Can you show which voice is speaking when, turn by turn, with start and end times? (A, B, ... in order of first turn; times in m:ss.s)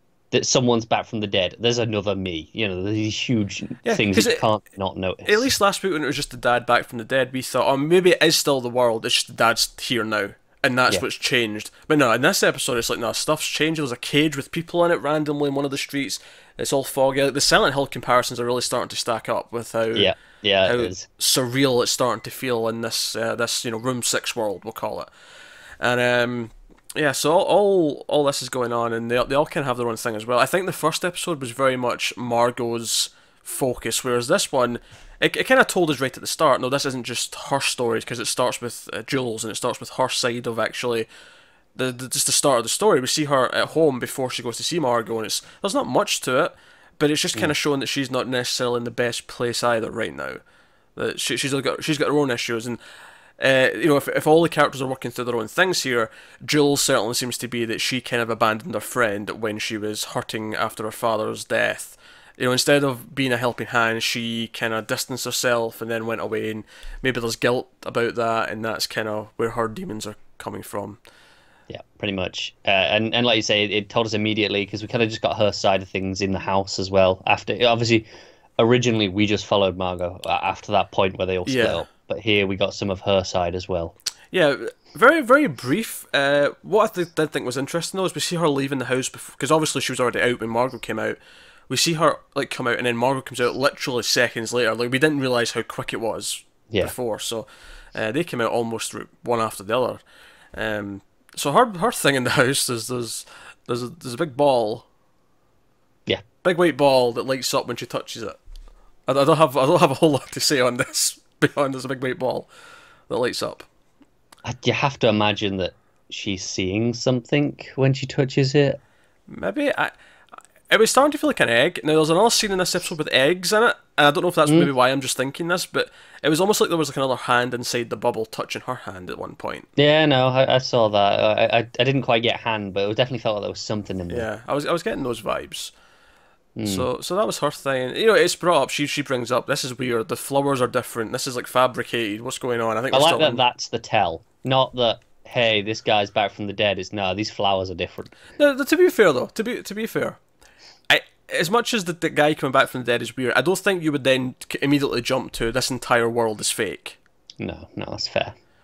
0:00.3-0:05.5 A
0:03.8-0:04.5 B
0:05.3-0:20.1 B
0:20.0-0:21.1 A
0:20.6-0:25.1 B
0:25.8-0:41.1 B
0:41.8-0:50.4 B
0:51.0-0:52.8 B
0:53.4-1:11.0 B
1:11.7-1:18.1 A
1:18.6-1:24.0 A
1:21.5-1:21.8 B
1:24.3-1:31.2 B
1:31.7-1:40.0 B
1:40.5-1:44.9 B
1:46.4-1:48.4 B
1:49.1-1:52.5 B
1:53.1-1:53.7 B
1:54.4-1:58.8 A
1:59.3-1:59.9 B
2:00.7-2:09.7 B
2:09.8-2:14.3 A
2:14.1-2:15.7 B
2:16.6-2:16.9 A
2:16.6-2:23.4 B
2:22.9-2:28.1 A
2:28.4-2:30.2 B
2:30.9-2:37.0 B
2:37.4-2:38.4 A